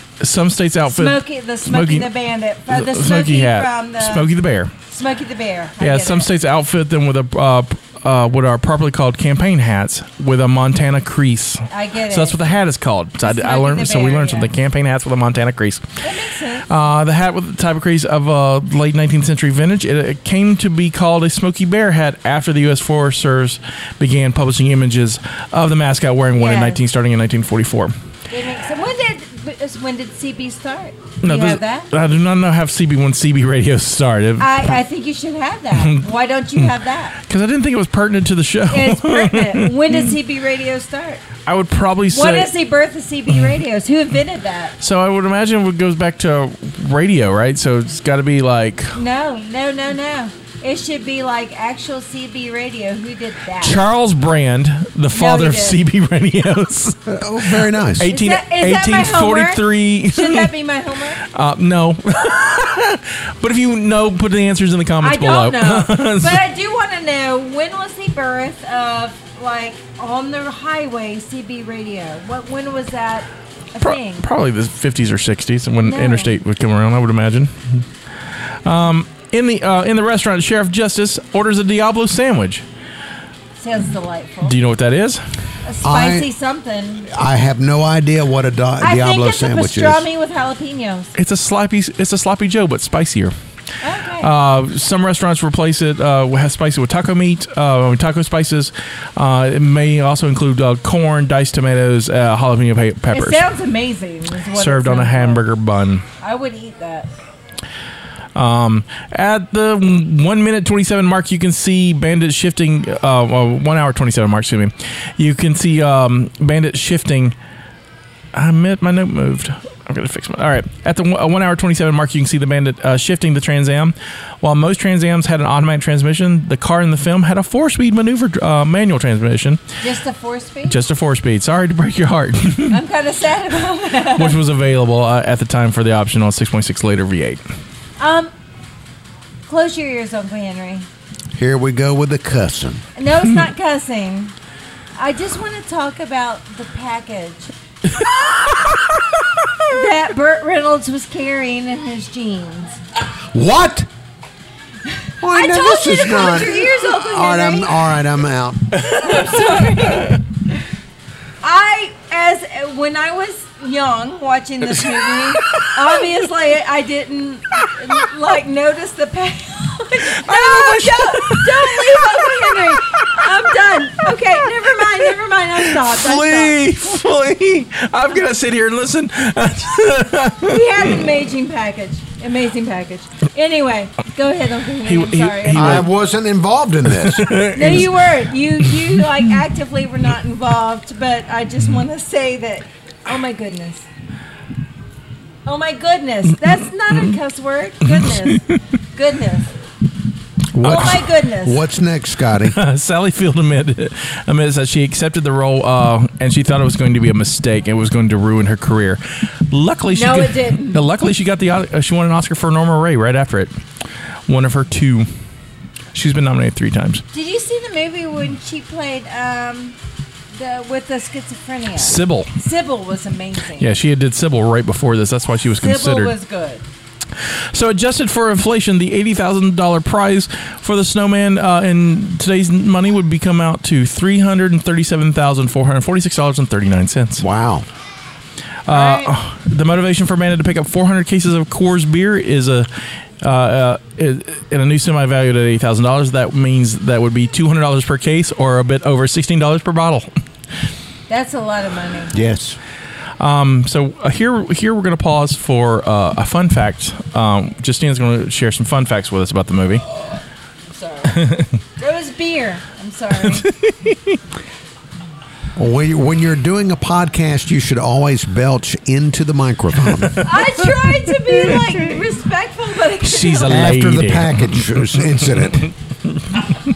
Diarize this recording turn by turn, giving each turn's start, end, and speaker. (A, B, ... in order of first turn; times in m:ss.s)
0:00.2-0:02.1 A
0:00.9-0:04.3 B
0:02.7-0:04.7 A
0:04.9-0:06.3 B
0:05.8-0:15.8 A
0:11.7-0:12.4 B
0:13.2-0:14.5 B
0:16.0-0:16.7 B
0:16.7-0:27.9 A
0:26.4-0:26.8 B
0:28.3-0:31.9 B
0:31.2-0:34.8 A
0:34.4-0:37.2 B
0:35.8-0:36.1 A
0:37.2-0:40.2 A
0:38.7-0:41.2 B
0:41.5-0:42.5 A
0:42.1-0:44.7 B
0:44.8-0:49.0 A
0:48.9-0:53.8 B
0:53.6-0:57.1 A
0:55.1-0:55.8 B
0:57.1-0:58.1 C
0:58.0-1:00.5 A
0:58.0-1:01.2 B
1:01.2-1:06.4 A
1:05.0-1:14.3 B
1:13.8-1:17.8 A
1:15.9-1:16.3 B
1:18.6-1:22.6 A
1:23.6-1:24.6 B
1:24.4-1:25.2 A
1:25.6-1:27.1 B
1:25.8-1:26.3 C
1:27.1-1:30.1 C
1:28.8-1:31.1 B
1:31.2-1:33.3 A
1:33.8-1:34.3 B
1:34.2-1:43.5 A
1:43.1-1:45.4 B
1:44.5-1:46.0 A
1:46.2-1:47.1 B
1:48.4-1:57.4 A
1:58.3-2:09.6 A
2:09.8-2:10.8 B
2:10.7-2:12.8 A
2:12.7-2:14.4 B
2:14.2-2:17.4 A
2:18.0-2:18.3 B
2:19.5-2:20.9 B
2:21.3-2:22.8 C
2:23.0-2:24.3 B
2:25.0-2:27.5 B
2:28.4-2:28.8 A
2:29.7-2:32.8 B
2:33.3-2:33.9 C
2:35.2-2:38.8 C
2:35.3-2:37.7 B
2:38.8-2:40.2 B
2:39.4-2:40.2 A
2:41.4-2:56.6 B
2:50.1-2:52.3 A
2:52.8-2:53.2 A
2:55.6-3:00.9 A
3:00.4-3:05.9 B
3:04.8-3:05.9 A
3:05.5-3:07.8 C
3:07.0-3:07.9 A
3:07.5-3:13.9 B
3:15.4-3:19.5 B
3:17.8-3:18.4 A
3:20.5-3:22.6 C
3:20.6-3:21.0 A
3:20.6-3:21.6 B
3:22.4-3:33.5 A
3:29.9-3:30.8 B
3:34.3-3:35.1 A
3:35.9-3:37.0 A
3:37.1-3:39.8 B
3:40.3-3:43.7 B
3:41.8-3:42.3 A
3:43.6-3:46.1 A
3:45.6-3:46.7 B
3:47.2-3:57.2 A
3:57.2-3:57.7 C
3:58.7-4:02.7 A
3:58.7-3:59.0 B
4:03.2-4:10.1 A
4:11.1-4:12.1 B
4:12.1-4:12.6 C
4:13.2-4:19.8 A
4:20.7-4:21.2 B
4:21.1-4:21.5 A
4:21.8-4:23.4 B
4:23.2-4:24.2 A
4:25.6-4:30.1 C
4:29.9-4:31.6 A
4:30.2-4:33.6 B
4:33.0-4:36.5 A
4:33.5-4:35.7 C